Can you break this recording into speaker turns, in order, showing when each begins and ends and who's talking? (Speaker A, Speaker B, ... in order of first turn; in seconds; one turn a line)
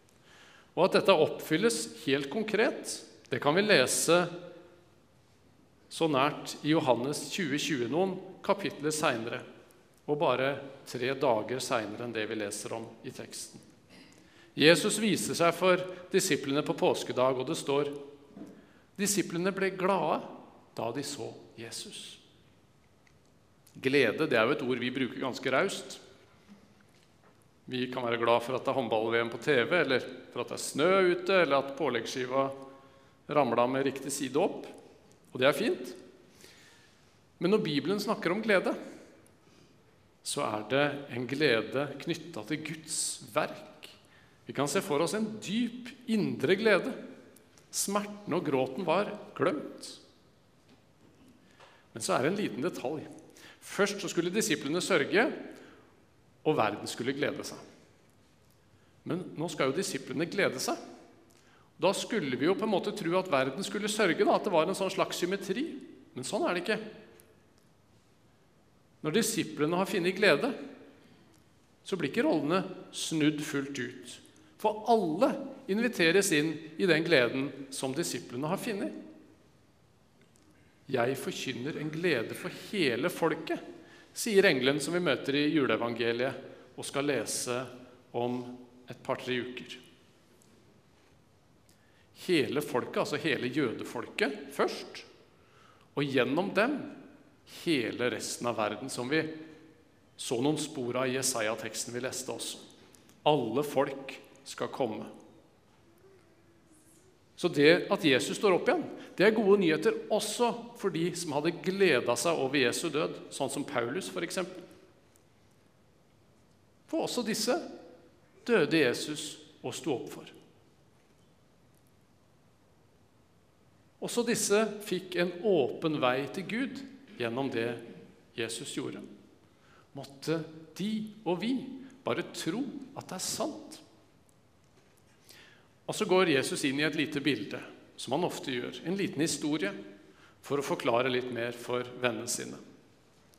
Speaker A: 0.7-4.3
Speaker A: 5.9-9.4
Speaker A: 10.1-13.6
Speaker A: 14.5-18.0
Speaker A: 19.0-22.2
Speaker A: 23.8-26.0
Speaker A: 27.6-32.5
Speaker A: 33.3-34.7
Speaker A: 35.3-36.0
Speaker A: 37.4-38.8
Speaker A: 40.2-47.0
Speaker A: 47.7-50.0
Speaker A: 51.9-53.1
Speaker A: 53.6-55.4
Speaker A: 56.4-57.6
Speaker A: 59.0-60.8
Speaker A: 61.8-66.8
Speaker A: 69.0-70.5
Speaker A: 71.8-79.0
Speaker A: 80.9-83.6
Speaker A: 84.1-89.8
Speaker A: 92.1-95.1
Speaker A: 95.9-96.9
Speaker A: 97.5-99.4
Speaker A: 100.2-102.6
Speaker A: 103.2-105.1
Speaker A: 107.4-114.6
Speaker A: 116.9-117.6
Speaker A: 118.4-120.3
Speaker A: 124.0-129.0
Speaker A: 129.9-133.8
Speaker A: 135.8-139.8
Speaker A: 140.4-142.6